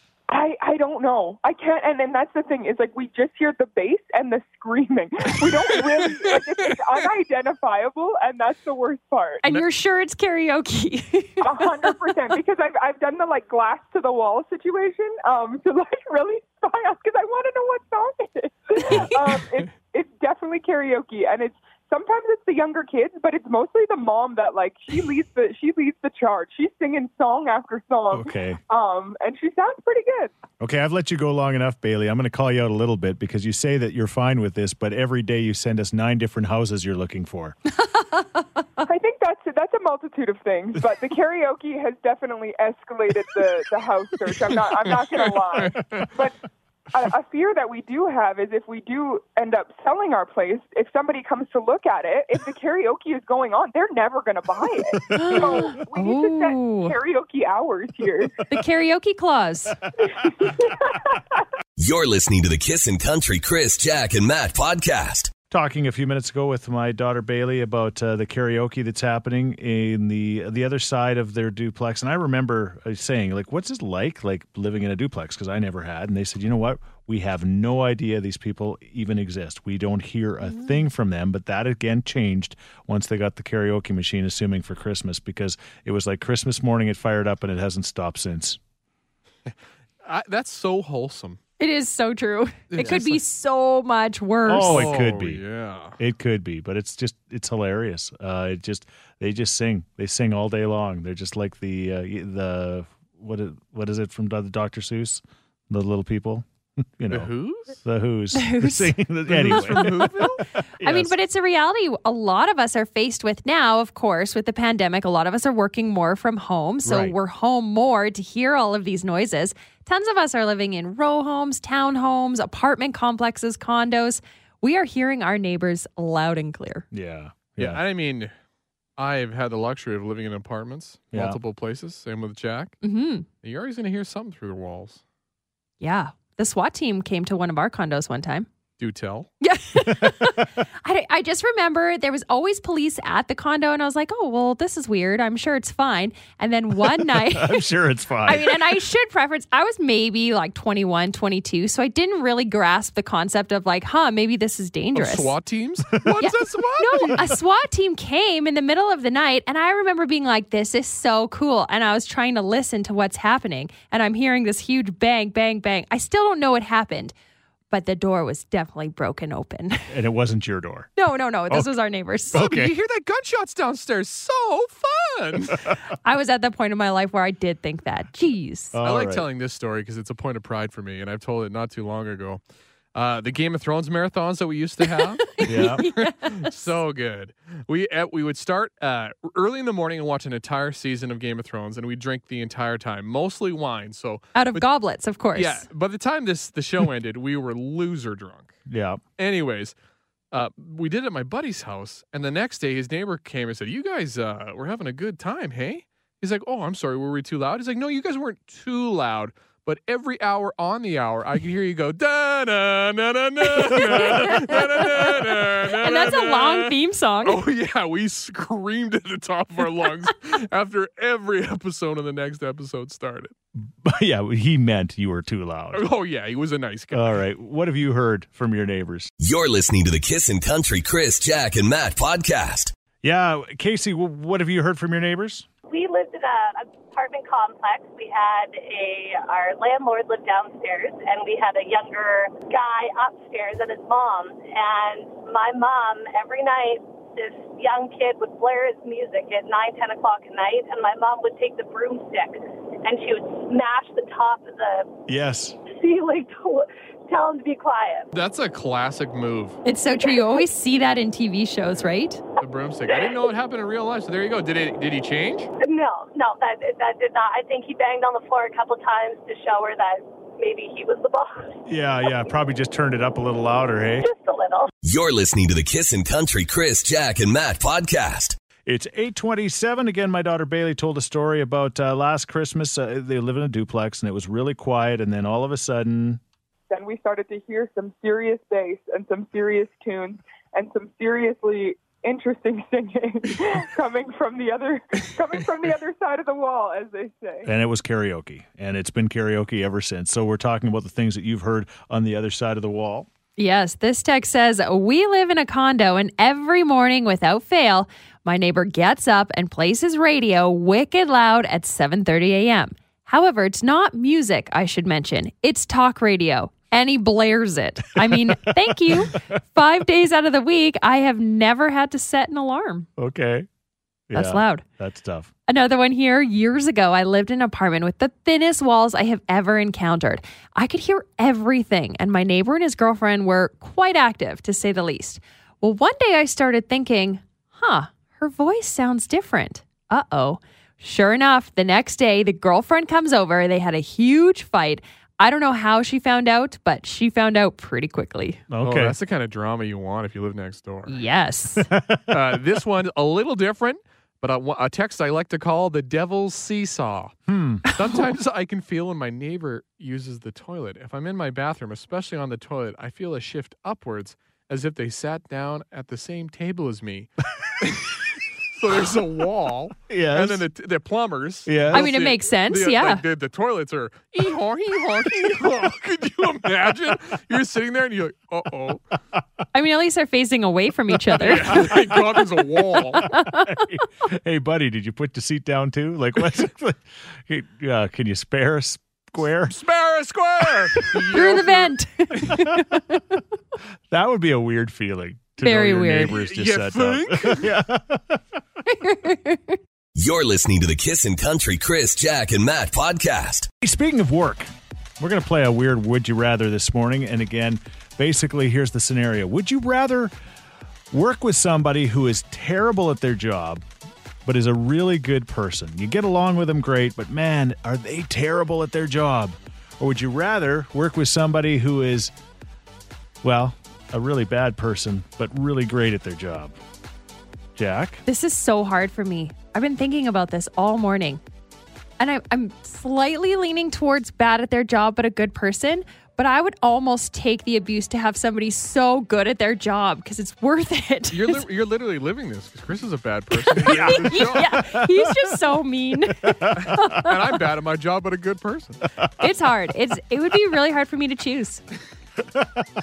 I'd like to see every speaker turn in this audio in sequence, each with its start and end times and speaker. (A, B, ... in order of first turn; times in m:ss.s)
0:00.3-0:09.4 A
0:09.4-0:11.7 B
0:11.4-0:30.3 A
0:18.9-0:19.1 C
0:28.1-0:28.6 C
0:30.6-0:37.6 C
0:38.8-0:46.4 A
0:44.8-0:46.1 D
0:46.9-0:58.4 A
0:55.1-0:57.0 B
0:58.5-0:59.8 B
1:00.2-1:01.1 A
1:01.8-1:05.3 E
1:05.5-1:28.6 C
1:30.0-1:31.4 D
1:31.6-1:34.9 B
1:32.7-1:33.2 D
1:34.5-1:35.4 C
1:34.6-1:36.0 D
1:36.0-1:46.5 C
1:47.0-1:51.2 C
1:47.1-1:47.8 D
1:48.3-1:49.0 B
1:49.3-1:50.4 D
1:49.5-1:50.2 B
1:50.8-2:06.9 B
1:56.8-1:57.2 C
2:06.9-2:07.8 C
2:07.6-2:08.3 D
2:09.0-2:12.8 D
2:11.1-2:11.4 C
2:12.8-2:13.3 B
2:13.4-2:15.0 D
2:15.8-2:18.5 B
2:18.8-2:19.3 D
2:19.4-2:27.7 B
2:26.9-2:28.7 C
2:28.2-2:35.3 B
2:35.0-2:37.2 D
2:36.2-2:47.1 B
2:47.7-2:49.9 B
2:49.9-2:50.9 C
2:51.0-2:52.5 B
2:52.3-2:52.7 C
2:52.4-2:55.7 D
2:56.0-2:58.8 B
2:58.7-2:59.3 C
2:58.8-3:02.4 D
3:02.9-3:14.6 D
3:05.4-3:06.5 B
3:05.4-3:05.9 C
3:14.4-3:15.6 B
3:15.3-3:18.6 D
3:18.7-3:19.0 C
3:19.2-3:19.7 D
3:20.3-3:43.3 D
3:33.5-3:37.4 B
3:33.9-3:34.4 C
3:43.6-3:45.9 C
3:45.7-3:47.1 D
3:46.9-3:49.1 C
3:49.2-3:52.7 E
3:53.0-3:55.5 C
3:55.7-4:14.9 F
4:15.1-4:15.6 C
4:15.7-4:18.1 F
4:18.1-4:19.6 D
4:19.6-4:22.2 B
4:20.1-4:20.4 F
4:22.4-4:25.5 D
4:22.9-4:23.2 F
4:25.6-4:32.1 F
4:31.7-4:34.1 C
4:34.0-4:34.7 F
4:34.8-4:38.4 E
4:38.6-4:46.2 C
4:46.7-4:57.5 A
4:57.5-5:03.1 C
5:03.4-5:22.9 B
5:18.9-5:19.2 C
5:23.0-5:23.5 C
5:24.1-5:25.3 C
5:24.1-5:24.6 B
5:25.5-5:48.4 B
5:48.5-5:49.0 C
5:48.6-5:51.0 D
5:50.9-5:51.7 B
5:51.7-5:52.2 C
5:52.1-6:18.8 D
5:57.3-5:57.7 C
6:09.9-6:10.4 C
6:11.5-6:11.9 C
6:11.7-6:13.0 B
6:19.5-6:21.7 B
6:21.1-6:29.6 C
6:21.2-6:23.1 D
6:23.1-6:23.6 B
6:29.5-6:32.3 D
6:31.1-6:33.2 B
6:33.9-6:38.2 C
6:35.4-6:36.2 B
6:36.1-6:37.6 D
6:38.7-6:39.6 B
6:40.0-6:43.5 E
6:43.6-6:50.1 C
6:50.9-6:53.6 C
6:54.2-7:02.1 C
7:03.2-7:06.6 C
7:07.6-7:08.0 C
7:08.1-7:11.2 B
7:12.0-7:21.4 B
7:21.1-7:24.5 D
7:23.6-7:27.2 B
7:23.6-7:25.3 C
7:26.4-7:26.8 C
7:26.6-7:28.9 D
7:29.2-7:31.6 B
7:32.4-7:32.6 C